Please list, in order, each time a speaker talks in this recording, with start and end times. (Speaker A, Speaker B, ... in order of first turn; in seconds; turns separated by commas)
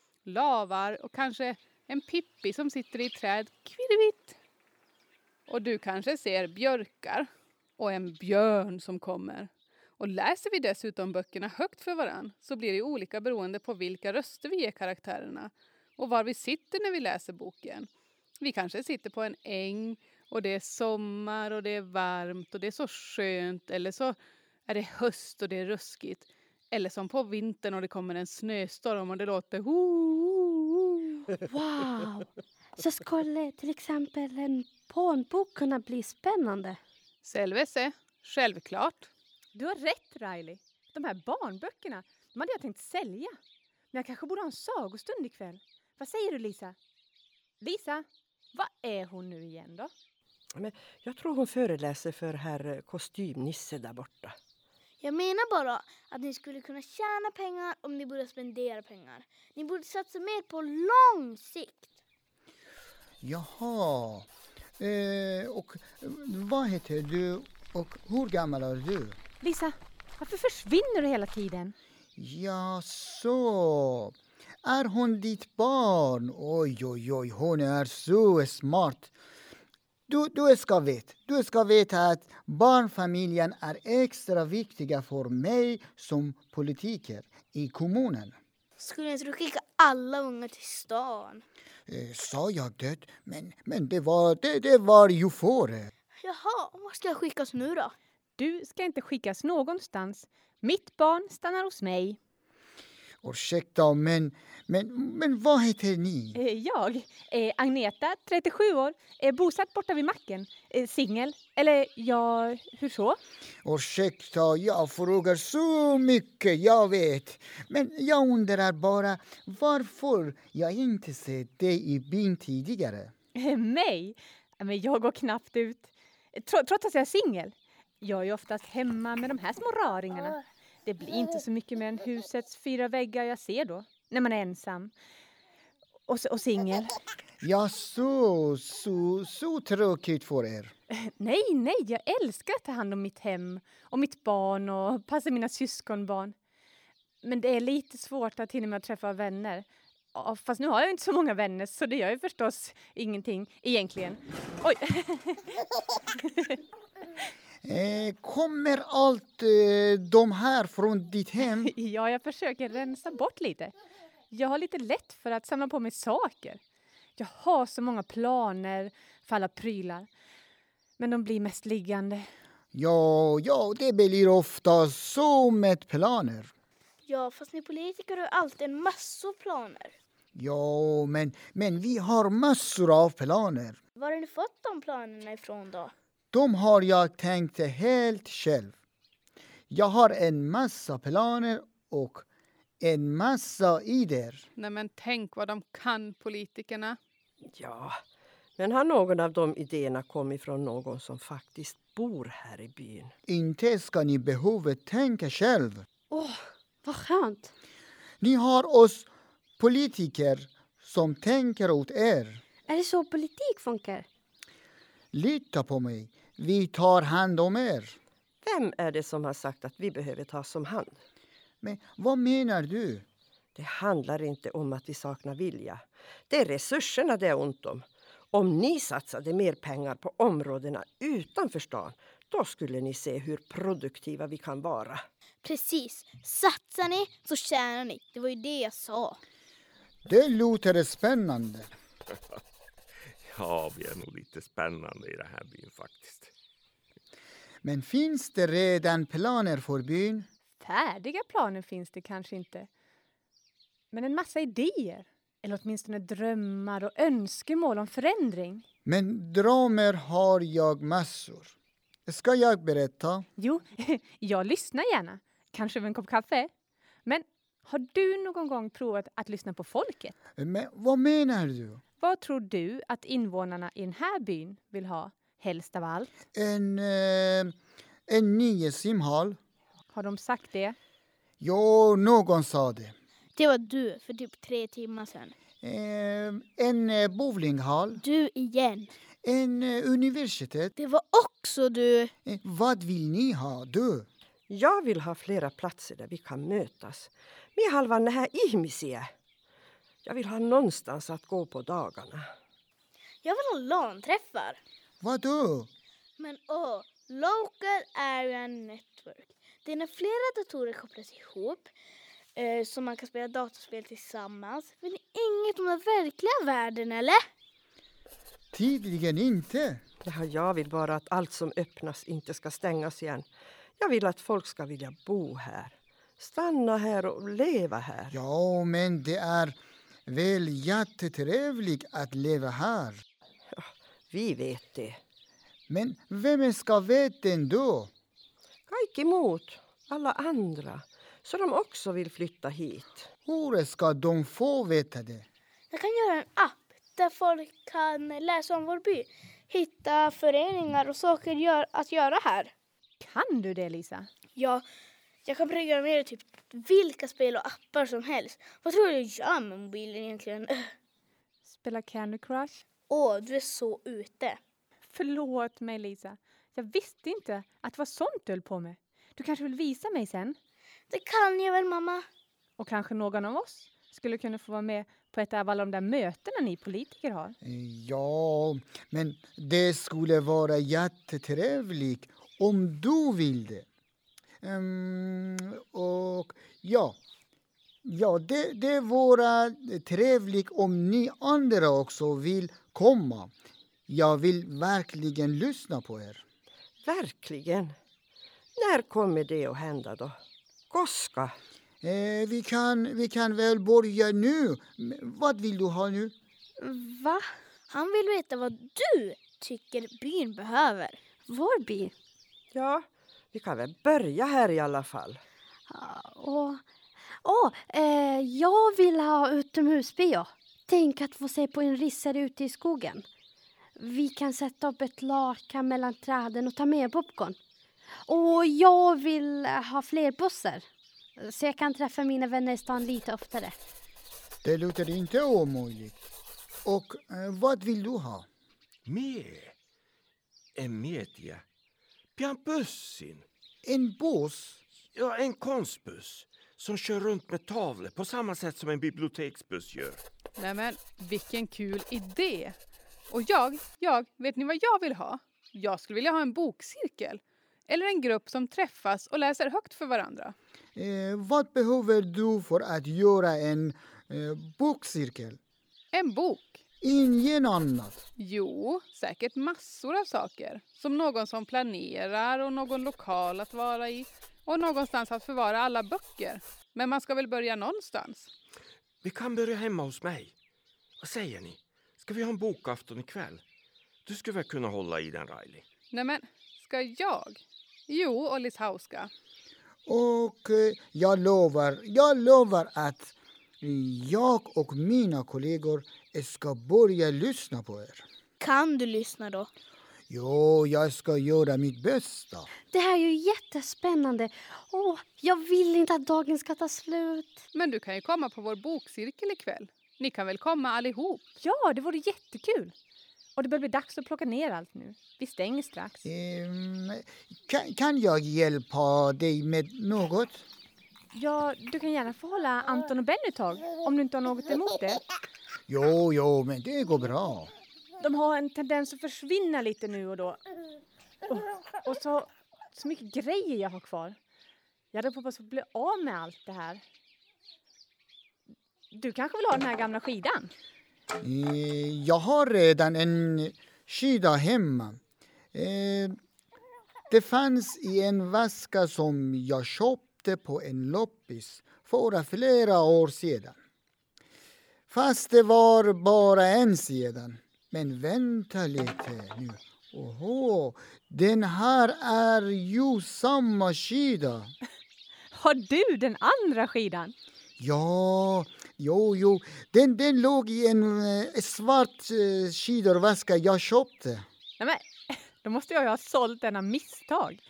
Speaker A: 0.2-4.4, Speaker A: 5.5-17.9, Speaker A: 18.4-31.0, Speaker B: 31.5-36.8, Speaker A: 37.2-39.1, Speaker C: 39.5-43.4, Speaker C: 43.9-46.8, Speaker C: 47.6-49.9, Speaker D: 50.5-54.4, Speaker E: 55.0-61.9, Speaker F: 63.2-64.3, Speaker F: 64.8-69.2, Speaker C: 69.4-71.8, Speaker F: 72.2-79.1, Speaker F: 80.1-88.4, Speaker E: 88.8-91.4, Speaker F: 91.9-95.9, Speaker E: 96.2-98.0, Speaker C: 98.4-102.2, Speaker F: 103.2-106.4, Speaker C: 106.3-113.2, Speaker F: 113.6-123.1, Speaker C: 123.4-134.9, Speaker C: 136.1-137.0, Speaker F: 137.4-140.7, Speaker C: 140.9-146.3, Speaker C: 147.2-155.4, Speaker F: 157.6-161.7, Speaker C: 161.6-163.7, Speaker C: 164.3-166.6, Speaker C: 167.2-170.1, Speaker C: 171.0-172.3, Speaker F: 172.7-176.5, Speaker E: 177.1-179.9, Speaker F: 180.3-183.8, Speaker E: 184.0-185.9, Speaker F: 186.3-188.7, Speaker F: 189.7-192.2, Speaker F: 192.8-194.5, Speaker A: 194.6-197.0, Speaker D: 197.5-198.0, Speaker D: 198.6-203.1, Speaker F: 203.3-205.8, Speaker B: 206.1-207.5, Speaker F: 208.2-212.4, Speaker B: 212.7-214.1, Speaker F: 215.1-218.0, Speaker D: 218.4-221.0, Speaker F: 221.6-223.1, Speaker D: 223.6-235.0, Speaker E: 235.4-239.2, Speaker F: 240.1-241.7, Speaker G: 243.2-246.3, Speaker F: 247.6-250.3, Speaker C: 250.6-252.7, Speaker C: 253.9-258.6, Speaker F: 258.9-261.6, Speaker F: 262.1-263.3, Speaker C: 263.4-266.5, Speaker C: 267.1-270.2, Speaker F: 270.4-271.8, Speaker C: 272.0-276.1, Speaker F: 276.3-277.6, Speaker F: 278.1-279.4, Speaker C: 279.9-280.8, Speaker F: 281.4-282.9, Speaker E: 283.4-285.4, Speaker F: 285.6-288.0, Speaker E: 288.0-288.9, Speaker F: 289.2-290.7, Speaker E: 290.8-292.1, Speaker F: 292.2-294.1, Speaker D: 294.5-299.1, Speaker D: 300.0-302.3, Speaker E: 303.2-304.6, Speaker F: 305.0-305.7, Speaker E: 306.2-311.7, Speaker E: 312.4-317.2, Speaker F: 318.5-319.8, Speaker D: 320.1-328.2, Speaker F: 328.1-333.0, Speaker D: 333.5-335.0, Speaker F: 335.7-337.9, Speaker D: 338.7-343.1, Speaker F: 343.3-345.2, Speaker E: 345.7-352.5, Speaker C: 353.0-354.1, Speaker E: 354.4-354.6, Speaker E: 355.2-360.7, Speaker C: 361.5-362.6, Speaker E: 362.9-364.4, Speaker C: 364.9-370.4, Speaker E: 370.9-372.1, Speaker C: 372.6-377.4, Speaker F: 377.4-383.7, Speaker F: 384.4-387.0, Speaker F: 387.8-393.3, Speaker F: 393.9-396.2, Speaker D: 396.8-397.8, Speaker D: 398.6-400.2, Speaker D: 400.7-401.4, Speaker F: 401.8-406.1, Speaker B: 406.6-407.3, Speaker E: 407.7-411.0, Speaker B: 411.3-411.9, Speaker D: 412.5-415.2, Speaker B: 415.7-416.6, Speaker B: 417.2-423.1, Speaker B: 423.8-427.4, Speaker B: 428.1-430.7, Speaker B: 431.2-433.6, Speaker F: 434.4-436.0, Speaker F: 436.6-438.3, Speaker G: 438.9-439.6, Speaker G: 440.6-441.4, Speaker G: 442.1-443.2, Speaker F: 443.6-444.6, Speaker G: 444.9-450.0, Speaker A: 450.4-452.6, Speaker A: 453.1-460.4, Speaker F: 460.8-465.4, Speaker A: 465.9-466.6, Speaker F: 466.8-468.0, Speaker A: 468.2-478.3, Speaker G: 479.0-480.3, Speaker G: 481.0-483.4, Speaker G: 484.1-485.6, Speaker A: 485.9-489.1, Speaker F: 489.9-498.1, Speaker E: 498.4-499.5, Speaker F: 500.1-502.5, Speaker B: 502.7-507.4, Speaker A: 507.5-511.2, Speaker C: 511.4-512.7, Speaker C: 513.4-516.0, Speaker F: 516.0-520.5, Speaker C: 521.1-525.0, Speaker F: 525.7-527.5, Speaker C: 528.0-530.4, Speaker C: 531.3-534.2, Speaker C: 534.9-536.8, Speaker C: 538.9-540.5, Speaker F: 541.2-545.0, Speaker F: 545.5-546.2, Speaker F: 547.1-553.6, Speaker F: 554.9-564.5, Speaker C: 565.3-567.1, Speaker F: 567.6-574.3, Speaker C: 574.6-577.4